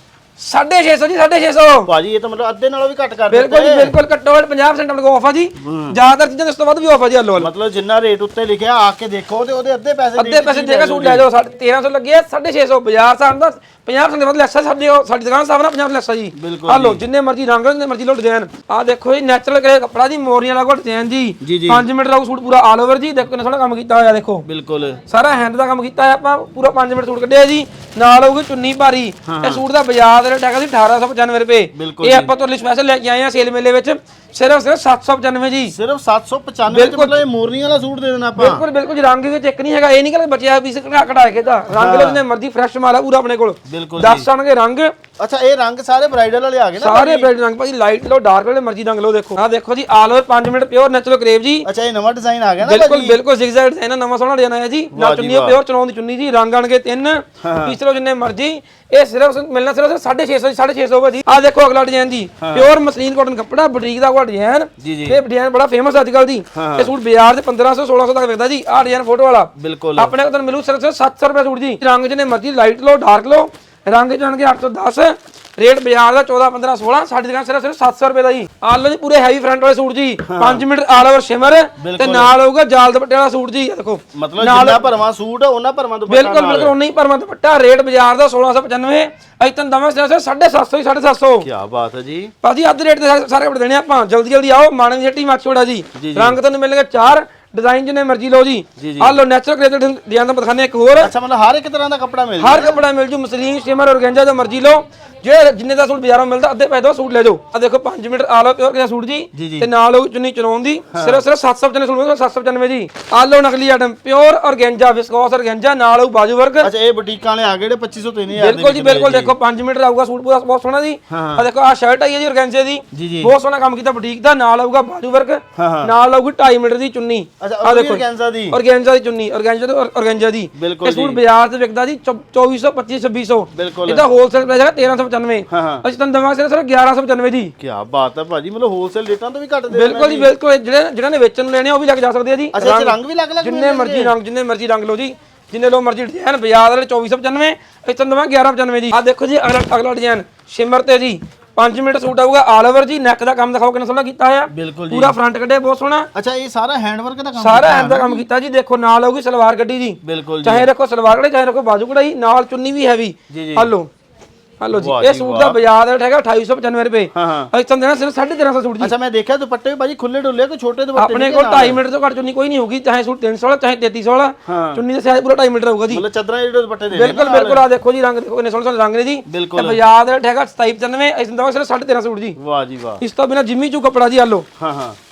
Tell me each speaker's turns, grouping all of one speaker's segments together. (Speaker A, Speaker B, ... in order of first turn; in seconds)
Speaker A: 0.4-1.9, 3.3-7.5, 10.2-24.4, 25.1-35.7, 36.7-37.2, 38.4-44.9, 46.8-51.7, 52.6-84.9, 86.1-91.5, 92.4-101.1, 102.4-116.7, 118.3-137.5, 139.7-156.1, 157.4-163.9, 164.6-168.9, 171.0-176.0, 176.9-182.4, 183.0-184.5
Speaker B: 1.9-3.9, 5.6-6.0, 7.4-11.2, 16.4-17.0, 21.4-21.9, 24.4-25.0, 29.3-29.6, 31.7-32.3, 35.7-38.6, 41.7-42.2, 43.7-44.3, 45.2-47.3, 51.6-53.2, 54.9-55.6, 57.4-57.8, 62.4-62.7, 64.8-65.2, 66.5-66.9, 69.6-70.1, 80.2-80.6, 81.8-82.3, 84.1-86.7, 91.4-92.3, 96.0-96.4, 98.8-99.2, 101.0-102.8, 109.3-109.7, 110.9-111.2, 116.6-119.3, 121.1-121.4, 122.9-123.3, 125.6-125.9, 127.4-128.6, 130.6-131.2, 133.5-134.1, 135.5-135.8, 137.6-140.3, 142.5-144.1, 154.5-155.2, 156.2-158.2, 160.0-160.7, 163.3-163.7, 164.7-165.6, 167.2-167.5, 168.8-171.8, 174.5-174.8, 175.9-177.7, 179.3-179.8, 182.4-183.0, 184.6-185.0